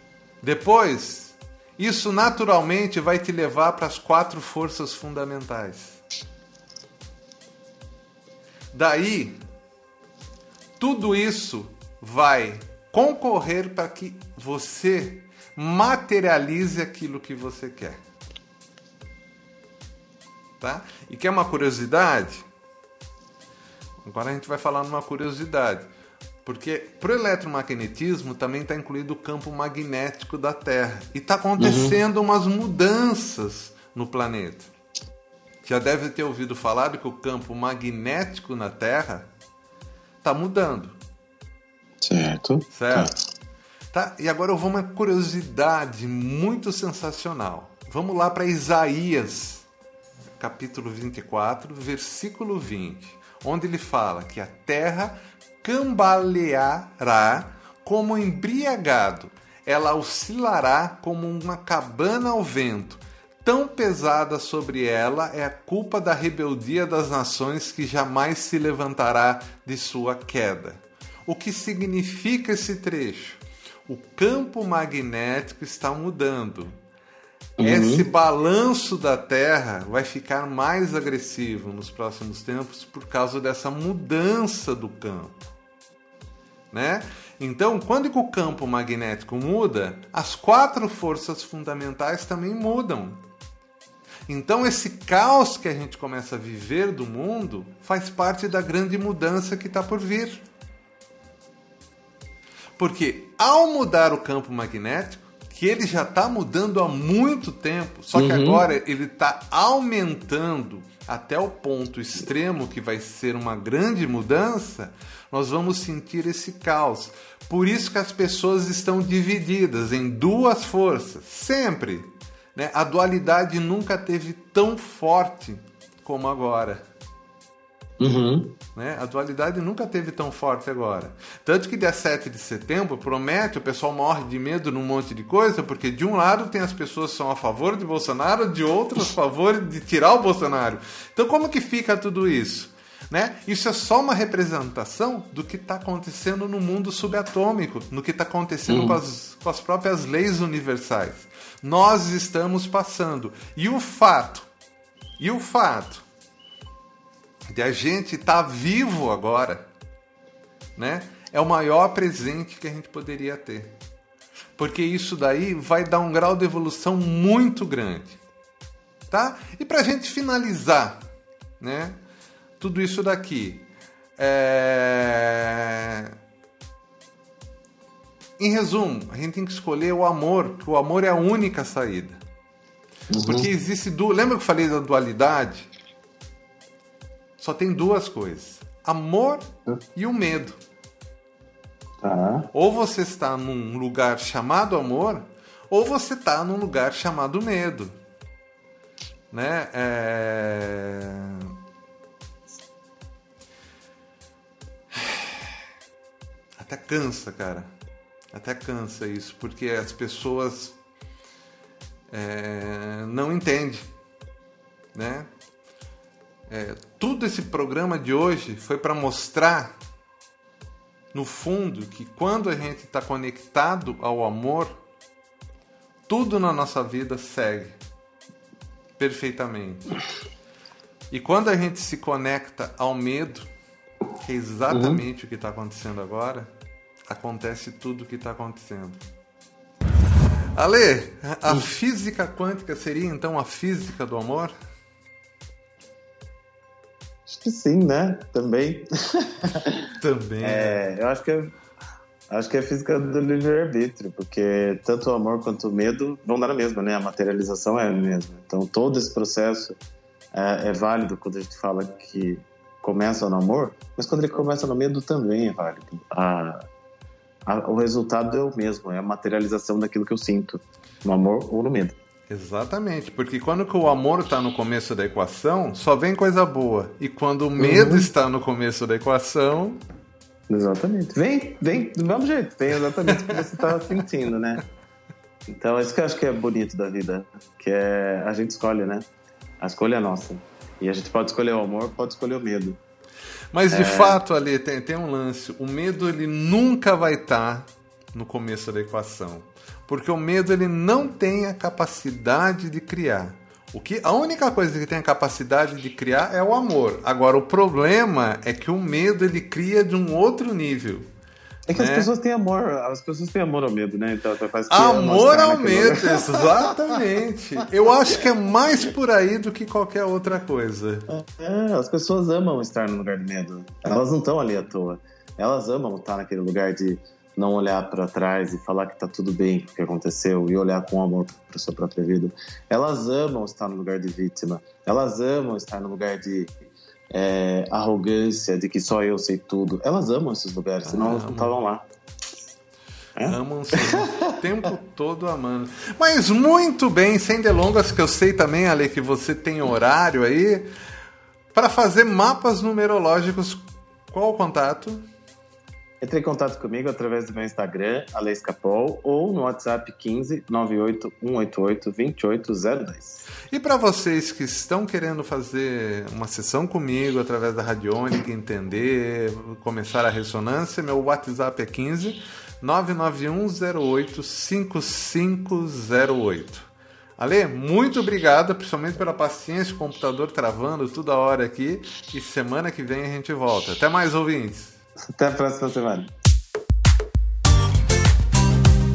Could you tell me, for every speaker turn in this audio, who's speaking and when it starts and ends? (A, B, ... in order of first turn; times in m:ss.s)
0:00.4-0:06.0 A
0:08.7-0:09.4 A
0:10.8-0:18.0 A
0:20.6-0:22.4 A
0:24.0-0:25.9 A
0:26.4-0:34.7 A
0:31.6-0:32.0 B
0:35.6-0:39.3 A
0:40.2-0:41.0 A
0:42.0-0:43.1 B
0:42.7-0:43.1 A
0:43.9-0:49.6 A
0:50.4-1:16.8 A
1:17.6-1:18.0 B
1:17.6-1:25.4 A
1:26.7-1:33.2 A
1:34.3-1:40.4 A
1:42.8-2:06.8 A
1:48.1-1:48.6 B
2:08.0-2:08.6 B
2:08.7-2:34.5 A
2:28.7-2:29.0 B
2:35.2-2:36.0 A
2:37.5-2:39.6 A
2:40.8-2:43.7 A
2:44.6-2:48.2 A
2:49.1-2:51.0 A
2:51.6-2:52.0 A
2:52.6-2:53.7 A
2:54.2-2:56.1 A
2:58.4-3:02.2 A
3:03.1-3:03.5 B
3:03.2-3:05.7 A
3:07.4-3:09.4 A
3:09.9-3:10.6 A
3:12.0-3:12.5 B
3:12.5-3:17.9 A
3:19.3-3:21.5 A
3:25.0-3:25.3 A
3:26.6-3:27.7 A
3:28.3-3:30.8 A
3:32.1-3:33.9 A
3:34.9-3:35.3 A
3:36.5-3:39.7 A
3:41.1-3:44.8 A
3:46.1-3:47.8 A
3:49.0-3:49.9 A
3:51.1-3:53.5 A
3:54.2-3:56.5 A
3:54.7-3:55.0 B
3:57.1-3:59.0 A
4:00.6-4:04.5 A
4:07.3-4:09.8 B
4:10.0-4:10.8 A
4:10.4-4:11.5 B
4:12.3-4:19.8 B
4:20.3-4:26.6 B
4:27.4-4:32.0 B
4:32.3-4:39.8 A
4:37.6-4:38.1 B
4:40.5-4:44.6 B
4:43.1-4:43.4 A
4:45.5-4:49.0 B
4:49.6-4:52.8 B
4:53.5-5:11.1 A
4:53.7-4:54.2 B
5:11.7-5:17.0 B
5:11.7-5:12.1 A
5:14.7-5:21.1 A
5:21.1-5:36.5 B
5:37.1-5:41.8 B
5:40.8-5:41.5 A
5:43.2-5:44.0 B
5:43.2-5:50.7 A
5:51.5-5:55.0 A
5:56.0-6:03.2 B
6:03.5-6:24.8 A
6:25.0-6:26.1 B